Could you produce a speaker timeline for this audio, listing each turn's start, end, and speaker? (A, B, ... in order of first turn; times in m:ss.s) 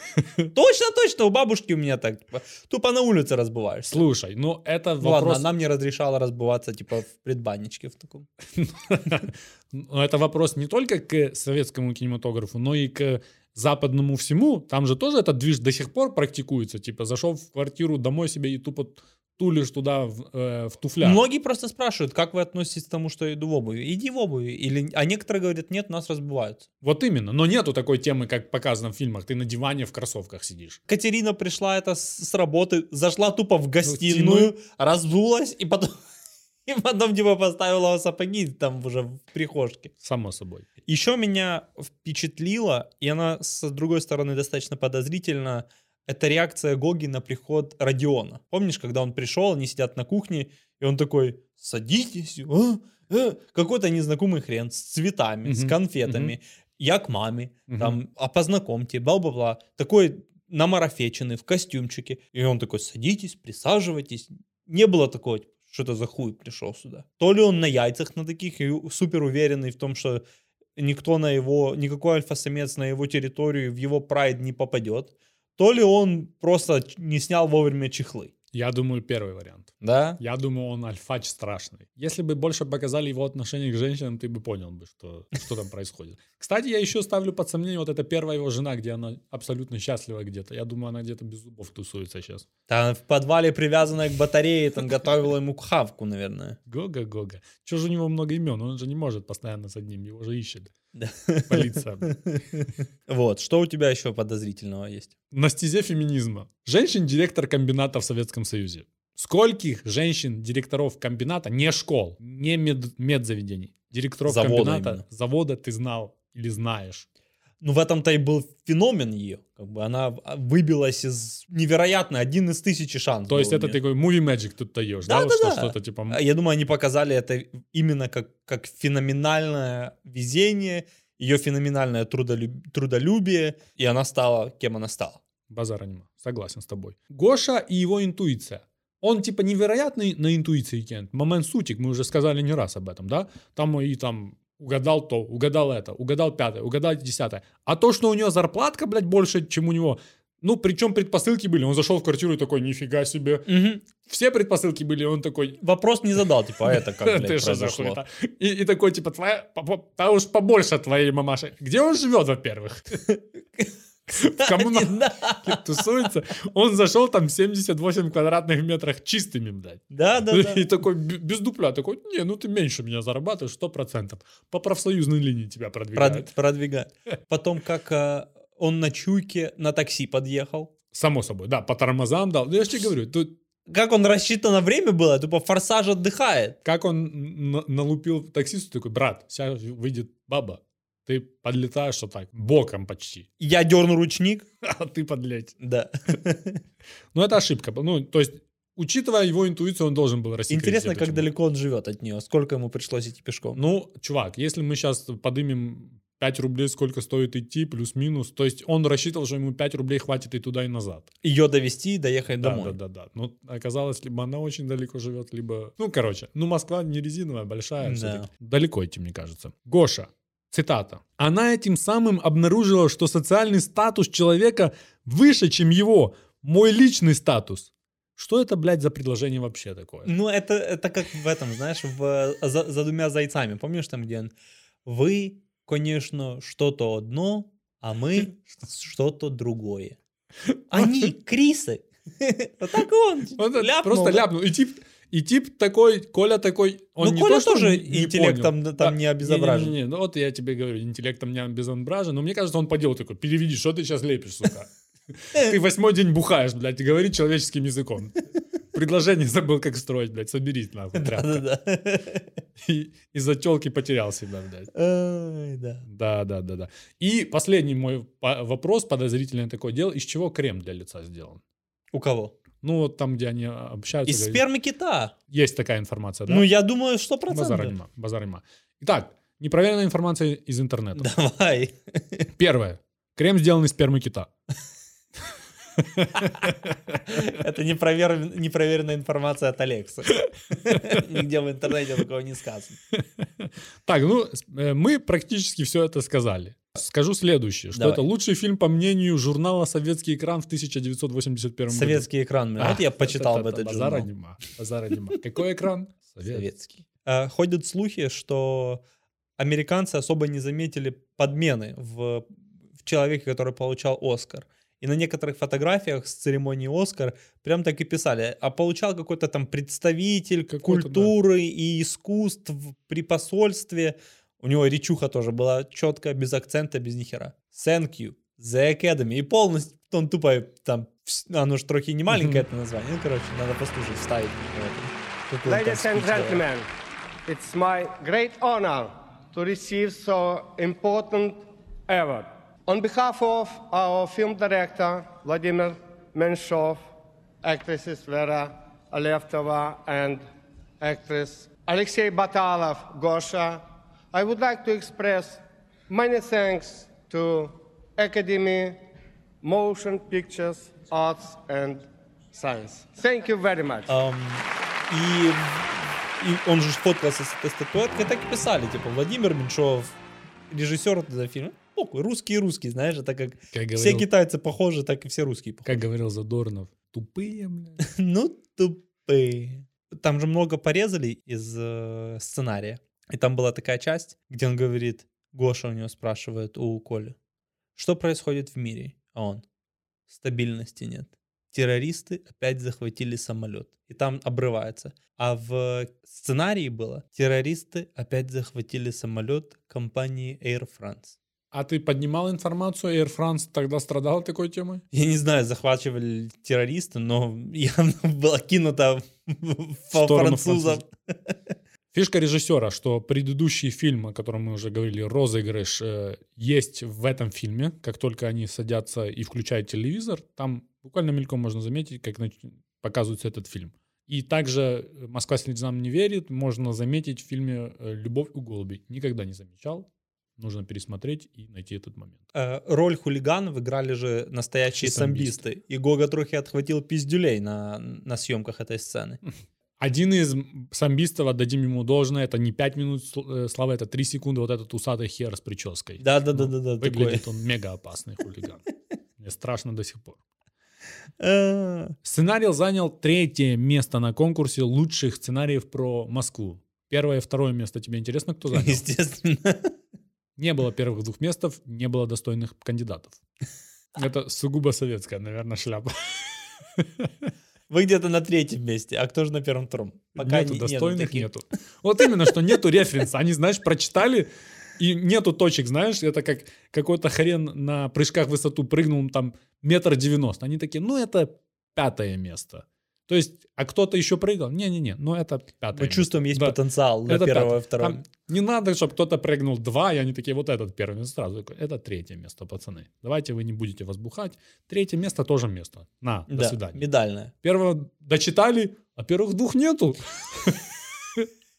0:00.2-0:00.4 A
0:00.5-0:04.1 B
0:03.9-0:05.5 A
0:05.0-0:08.3 B
0:08.6-0:21.2 A
0:21.0-0:26.7 B
0:26.8-0:30.8 A
0:30.9-0:36.0 B
0:33.8-0:34.6 A
0:36.7-0:39.9 B
0:40.0-0:40.7 A
0:40.9-1:10.2 B
0:55.4-0:56.4 A
0:57.7-0:58.0 A
1:10.8-1:18.3 B
1:18.5-1:32.5 A
1:19.8-1:20.2 B
1:32.7-1:36.6 B
1:36.7-1:40.7 A
1:41.0-1:45.1 B
1:41.5-1:42.4 A
1:45.3-1:57.1 A
1:54.2-1:55.0 B
1:57.6-2:03.8 B
2:03.3-2:06.2 A
2:05.1-2:15.2 B
2:15.5-2:35.6 A
2:33.5-2:33.8 B
2:35.6-2:38.0 B
2:36.6-2:43.1 A
2:43.6-2:45.9 B
2:44.1-2:56.3 A
2:49.9-2:50.7 B
2:56.0-3:00.7 B
3:00.9-3:03.4 A
3:03.7-3:06.6 B
3:06.6-3:13.3 A
3:13.4-3:14.5 B
3:14.6-3:15.6 A
3:15.6-3:16.6 B
3:17.1-3:21.3 A
3:20.5-3:23.6 B
3:23.5-3:31.1 A
3:31.2-3:32.8 B
3:32.4-3:50.1 A
3:37.8-3:38.3 B
3:50.1-3:54.3 B
3:54.8-4:00.0 B
4:00.5-4:01.1 A
4:00.7-4:04.3 B
4:03.4-4:21.4 A
4:07.0-4:09.8 B
4:21.0-4:22.3 B
4:22.6-4:24.7 A
4:24.7-4:25.8 B
4:25.8-4:31.4 A
4:31.9-4:32.3 B
4:32.6-4:34.4 A
4:34.1-4:35.1 B
4:35.3-4:36.5 A
4:36.3-4:37.8 B
4:37.3-4:41.1 A
4:41.0-4:42.3 B
4:42.4-4:44.3 A
4:45.8-4:47.2 A
4:47.1-4:52.8 B
4:50.7-4:51.0 A
4:52.9-5:06.5 A
4:57.7-4:58.0 B
5:01.7-5:04.1 B
5:06.3-5:08.8 B
5:09.4-5:12.3 B
5:12.8-5:36.4 B
5:20.5-5:21.1 A
5:32.1-5:32.4 A
5:35.4-5:36.7 C
5:37.3-5:46.8 C
5:47.4-5:50.3 C
5:50.8-5:58.8 C
5:59.4-6:03.9 C
6:03.9-6:10.0 B
6:10.5-6:15.7 B
6:13.5-6:14.1 A
6:15.6-6:17.8 A
6:17.8-6:27.2 B
6:27.8-6:29.4 B
6:30.1-6:41.2 B
6:41.5-6:44.8 A
6:44.9-6:50.9 B
6:49.9-6:50.8 A
6:51.9-7:12.2 A
7:12.3-7:19.2 B
7:14.7-7:15.4 A
7:19.8-7:28.7 A
7:26.0-7:27.2 B
7:29.2-7:30.2 A
7:31.2-7:32.0 B
7:32.0-7:38.8 A
7:38.5-7:39.7 B
7:40.4-7:43.2 A
7:44.0-7:47.3 A
7:47.7-7:51.3 B
7:50.2-8:16.9 A
8:05.7-8:08.0 B
8:16.3-8:17.3 B
8:17.4-8:21.3 A